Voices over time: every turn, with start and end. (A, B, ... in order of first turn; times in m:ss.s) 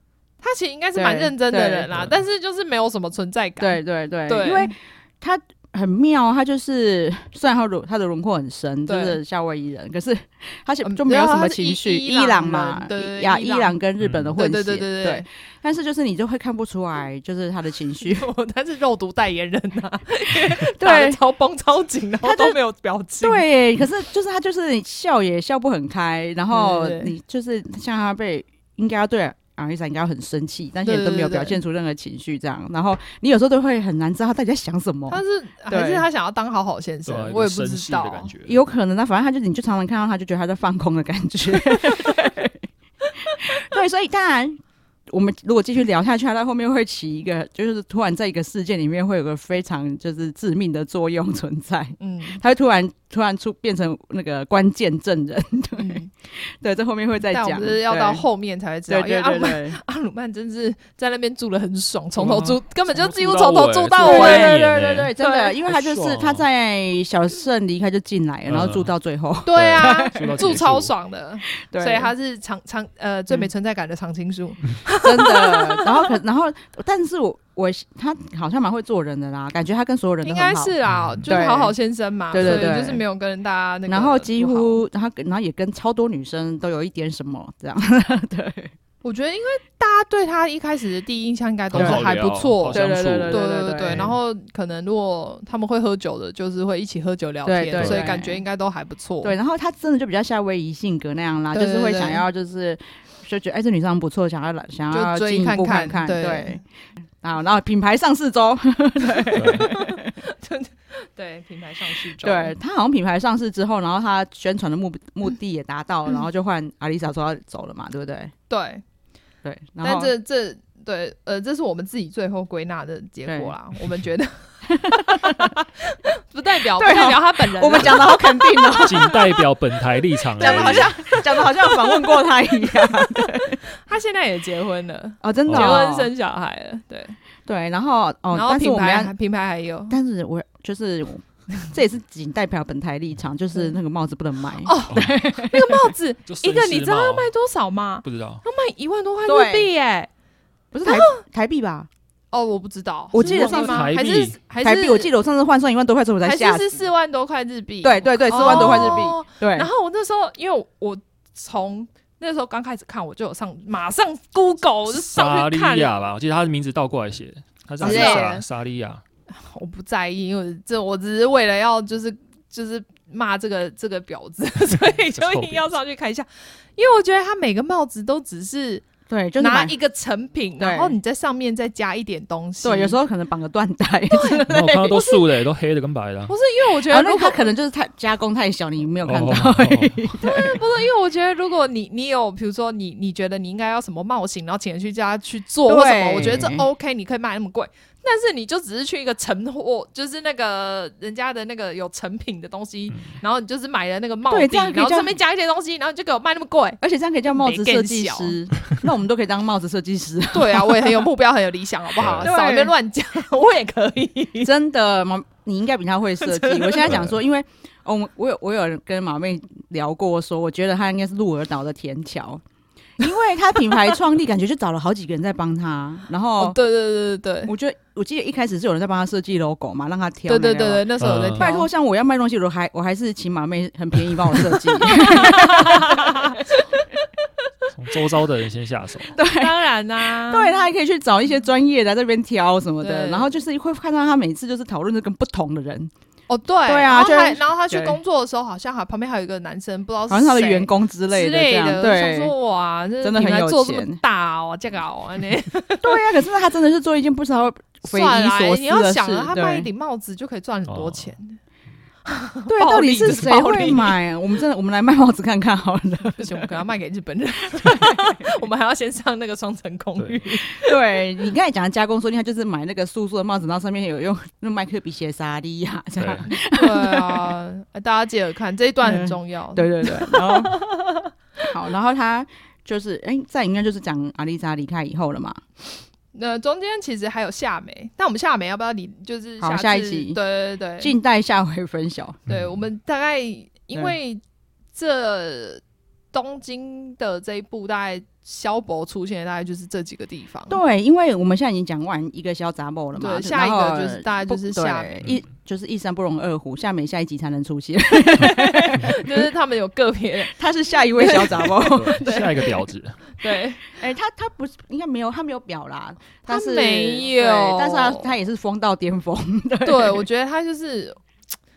0:00.4-0:04.7 A
0:01.0-0:01.9 B
0:03.6-0:18.3 B
0:08.9-0:09.2 A
0:10.8-0:13.8 A
0:14.0-0:14.4 C
0:14.4-0:15.2 A
0:18.0-0:23.4 A
0:20.5-0:21.2 B
0:22.2-0:22.6 B
0:23.2-0:36.1 B
0:26.5-0:27.1 A
0:30.8-0:31.6 A
0:35.1-0:38.3 A
0:37.1-0:38.6 C
0:38.5-0:42.7 B
0:43.3-0:58.2 B
0:52.0-0:52.4 A
0:55.8-0:56.1 A
0:57.3-1:04.6 A
0:58.9-0:59.8 B
1:02.2-1:05.1 C
1:04.0-1:10.5 B
1:05.2-1:05.6 A
1:05.7-1:06.4 C
1:08.5-1:08.9 C
1:09.4-1:16.1 A
1:09.5-1:10.9 C
1:11.7-1:12.1 B
1:15.0-1:20.8 B
1:20.2-1:24.8 A
1:20.9-1:21.2 C
1:21.3-1:21.8 B
1:22.3-1:23.0 B
1:23.9-1:28.7 B
1:29.0-1:39.3 A
1:31.7-1:34.1 C
1:31.7-1:32.0 B
1:32.7-1:34.2 B
1:37.4-1:38.4 B
1:37.8-1:38.0 C
1:39.2-1:46.6 B
1:41.5-1:42.2 A
1:44.9-1:46.6 A
1:47.2-1:50.1 B
1:49.1-1:52.6 A
1:49.3-1:49.7 C
1:52.2-1:58.3 B
1:58.5-1:58.8 A
1:59.4-2:00.1 B
1:59.8-2:09.2 A
2:03.3-2:03.5 B
2:04.7-2:05.5 B
2:06.8-2:09.2 B
2:08.8-2:11.2 C
2:10.4-2:13.6 B
2:10.4-2:17.2 A
2:15.2-2:16.1 B
2:15.5-2:15.9 C
2:17.5-2:19.1 B
2:18.3-2:19.9 A
2:19.9-2:25.9 B
2:24.6-2:30.1 A
2:24.9-2:25.2 C
2:26.3-2:27.3 C
2:28.0-2:28.4 C
2:29.3-2:29.7 B
2:30.7-2:31.9 B
2:30.8-2:31.2 A
2:32.3-2:35.1 A
2:33.1-2:33.9 B
2:33.1-2:34.4 C
2:34.6-2:36.7 B
2:36.2-2:45.9 A
2:37.8-2:39.7 B
2:38.3-2:39.0 C
2:44.9-2:49.0 C
2:47.8-2:48.3 B
2:47.8-2:48.4 A
2:49.3-2:58.8 A
2:54.7-2:55.8 C
2:59.1-2:59.7 B
2:59.4-3:03.0 A
3:00.6-3:01.0 B
3:02.6-3:05.2 B
3:04.1-3:04.4 A
3:04.5-3:06.3 C
3:06.3-3:07.5 A
3:06.9-3:10.6 B
3:09.1-3:09.9 C
3:10.2-3:28.4 A
3:15.7-3:16.6 B
3:16.2-3:16.6 C
3:24.3-3:25.1 B
3:26.8-3:31.1 B
3:30.3-3:34.5 A
3:32.0-3:32.3 C
3:32.2-3:32.7 B
3:34.4-3:42.4 B
3:36.2-3:37.0 A
3:36.9-3:37.1 C
3:43.0-3:46.6 B
3:46.4-3:47.5 A
3:47.4-3:56.8 B
3:50.3-3:51.7 A
3:51.0-3:51.5 C
3:55.0-3:56.5 A
3:57.7-3:59.1 C
3:59.1-3:59.6 B
3:59.2-4:00.6 A
4:00.2-4:05.9 B
4:02.8-4:03.4 A
4:06.3-4:16.0 A
4:06.7-4:08.0 B
4:10.1-4:12.3 B
4:13.0-4:14.0 B
4:15.8-4:19.7 B
4:17.8-4:21.4 A
4:20.7-4:21.1 C
4:22.1-4:24.0 A
4:22.5-4:26.5 B
4:26.2-4:30.7 A
4:27.5-4:28.1 B
4:30.5-4:37.3 B
4:36.0-4:36.3 C
4:36.3-4:41.1 A
4:38.8-4:40.6 B
4:41.5-4:45.4 B
4:46.1-4:50.9 A
4:49.4-4:50.2 B
4:50.8-4:52.2 B
4:52.3-4:52.6 C
4:52.3-4:54.2 A
4:54.7-5:00.6 A
5:00.5-5:09.2 B
5:03.0-5:05.0 A
5:08.0-5:10.3 A
5:10.2-5:12.5 B
5:11.0-5:12.2 A
5:11.6-5:13.0 C
5:13.2-5:13.6 A
5:13.7-5:20.1 B
5:16.3-5:18.1 A
5:19.6-5:21.0 A